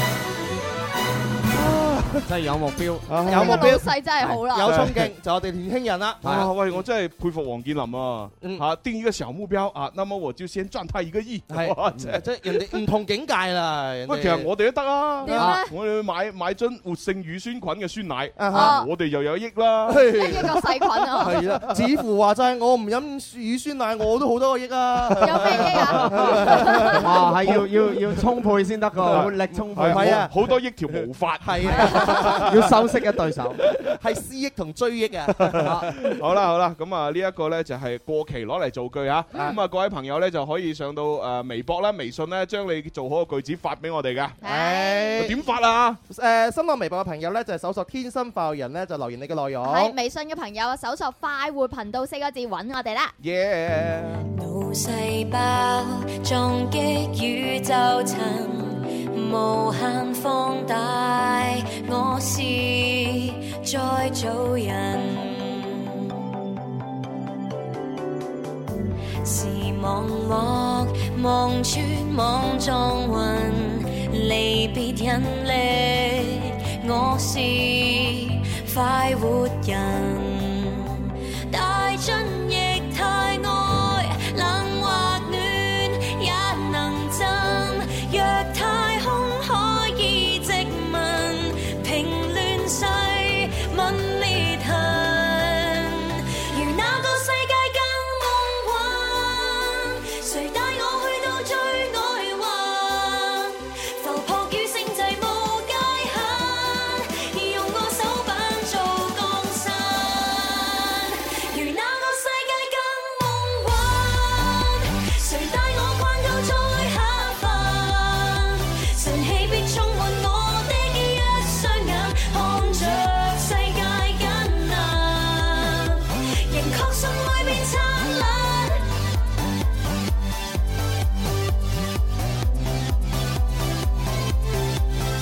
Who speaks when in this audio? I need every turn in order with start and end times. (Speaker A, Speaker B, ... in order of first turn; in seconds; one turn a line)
Speaker A: 1.6-2.2
Speaker B: 2.2-4.4
Speaker C: 3.1-3.9
Speaker D: 3.2-4.7
Speaker C: 4.5-6.2
Speaker A: 4.7-5.1
Speaker B: 6.2-6.5
Speaker A: 6.2-12.8
Speaker C: 11.5-14.5
Speaker A: 14.1-20.1
Speaker D: 15.2-15.7
Speaker B: 15.3-15.6
Speaker C: 18.4-18.8
Speaker D: 18.5-18.9
Speaker C: 19.9-27.5
Speaker D: 20.1-21.4
Speaker D: 25.1-27.0
Speaker B: 25.6-26.4
Speaker B: 26.9-30.2
Speaker A: 27.4-27.7
Speaker A: 29.1-32.7
Speaker C: 29.1-30.3
Speaker C: 31.4-32.6
Speaker B: 32.3-33.6
Speaker C: 33.8-36.1
Speaker A: 35.4-44.4
Speaker B: 35.6-35.9
Speaker C: 39.3-39.6
Speaker D: 44.4-45.3
Speaker C: 44.4-45.4
Speaker A: 45.2-46.0
Speaker C: 46.1-49.9
Speaker D: 49.6-53.1
Speaker A: 53.2-54.3
Speaker E: 54.3-66.2
Speaker E: 69.2-128.9